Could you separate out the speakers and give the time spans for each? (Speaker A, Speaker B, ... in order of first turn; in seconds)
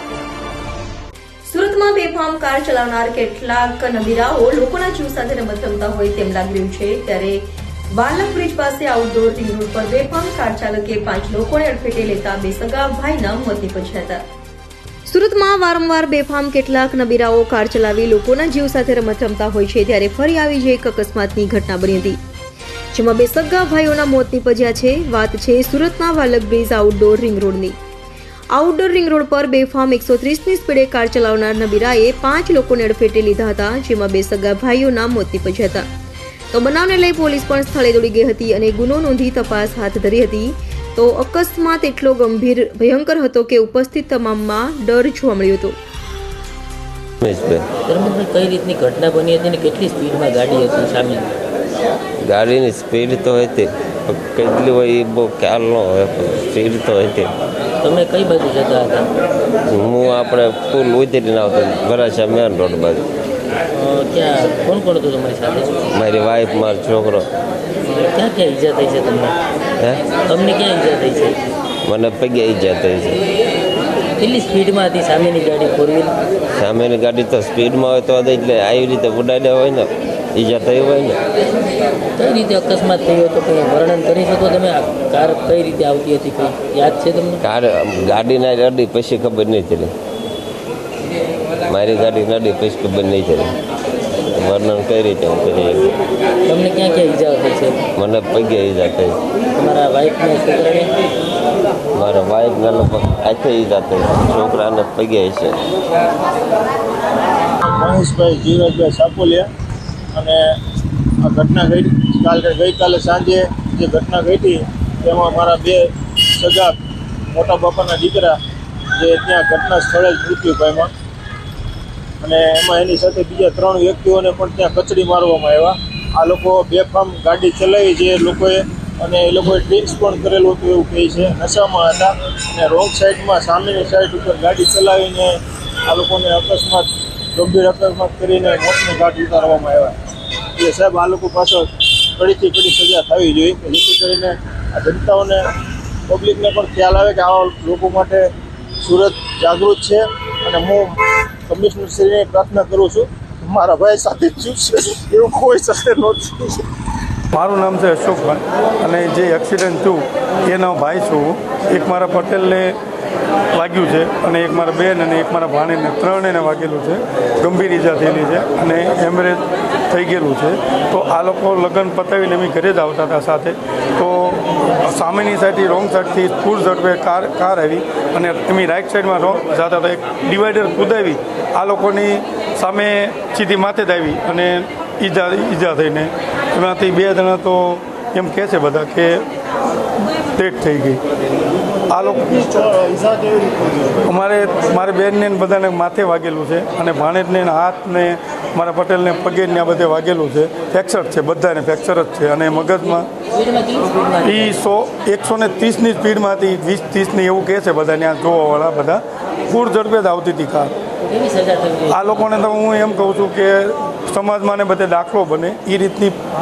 Speaker A: 1.5-7.4, 7.9-14.2, 15.1-22.2, 22.9-27.8, 28.5-35.9, 36.5-45.8
Speaker B: 47.2-47.7, 52.2-57.3, 59.6-63.1, 65.9-67.3, 69.8-70.0, 71.8-73.2, 76.5-81.2, 87.4-89.9, 91.7-93.5, 94.3-95.9, 97.9-99.2, 101.9-105.6
Speaker C: 47.9-51.3, 57.8-59.1, 63.7-65.9, 67.8-69.4, 70.2-71.4, 74.2-76.1, 82.2-87.4, 96.5-97.8, 99.5-100.9, 203.3-204.6, 211.0-212.1
Speaker D: 107.7-109.5, 110.1-110.4, 111.2-116.7, 117.3-118.4, 119.0-120.9, 122.2-139.9, 140.6-145.4, 146.1-148.3, 148.8-156.7
Speaker E: 157.3-162.7, 163.5-189.2, 190.3-191.0, 191.9-192.6, 194.0-203.1, 204.2-210.7, 211.9-216.1